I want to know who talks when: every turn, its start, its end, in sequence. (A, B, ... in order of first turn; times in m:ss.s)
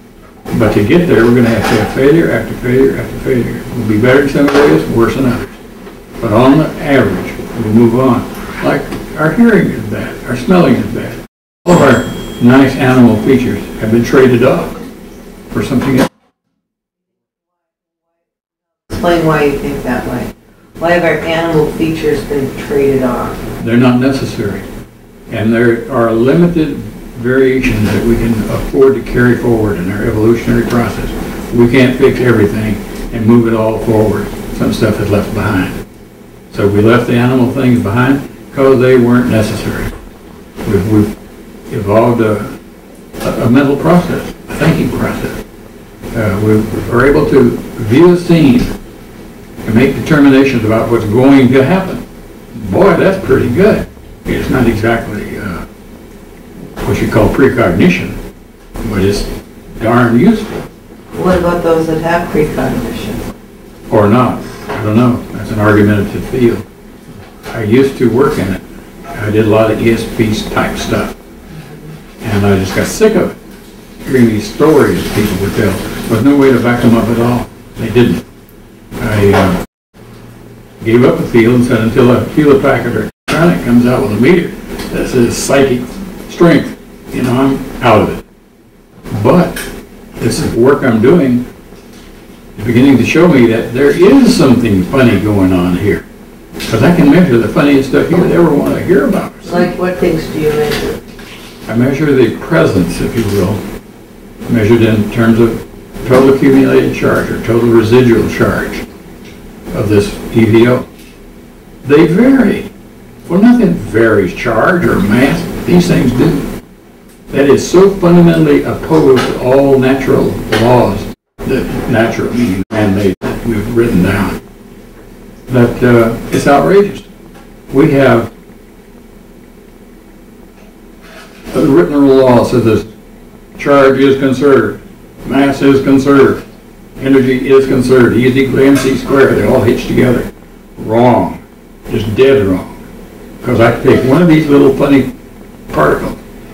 0:00.5-0:05.6 A
0:06.2-0:14.8 A
0:15.5-0:16.1 A
0:18.9-0:23.4 B
0:23.6-0:24.6 A
0:25.3-0:35.8 A
0:36.5-0:39.9 A
0:40.6-0:41.1 A
0:41.7-0:42.5 A
0:43.2-0:45.4 A
0:46.1-0:48.7 A
0:49.6-0:55.6 A
0:56.8-0:58.2 A
0:58.8-1:00.7 A
1:01.1-1:03.2 B
1:03.9-1:06.6 A
1:07.5-1:11.1 A
1:12.2-1:13.4 A
1:14.0-1:18.2 A
1:19.0-1:19.6 A
1:20.8-1:28.2 A
1:29.1-1:29.6 A
1:30.2-1:31.4 A
1:32.6-1:36.0 A
1:36.6-1:39.7 A
1:39.4-1:41.0 B
1:41.6-1:43.6 A
1:44.5-1:48.8 A
1:49.7-1:50.8 A
1:51.8-1:52.7 A
1:53.2-1:56.5 A
1:57.3-2:04.4 A
2:05.5-2:07.1 A
2:07.7-2:08.3 A
2:11.5-2:12.9 A
2:13.6-2:16.4 A
2:17.0-2:22.8 A
2:23.4-2:25.1 A
2:25.7-2:26.2 A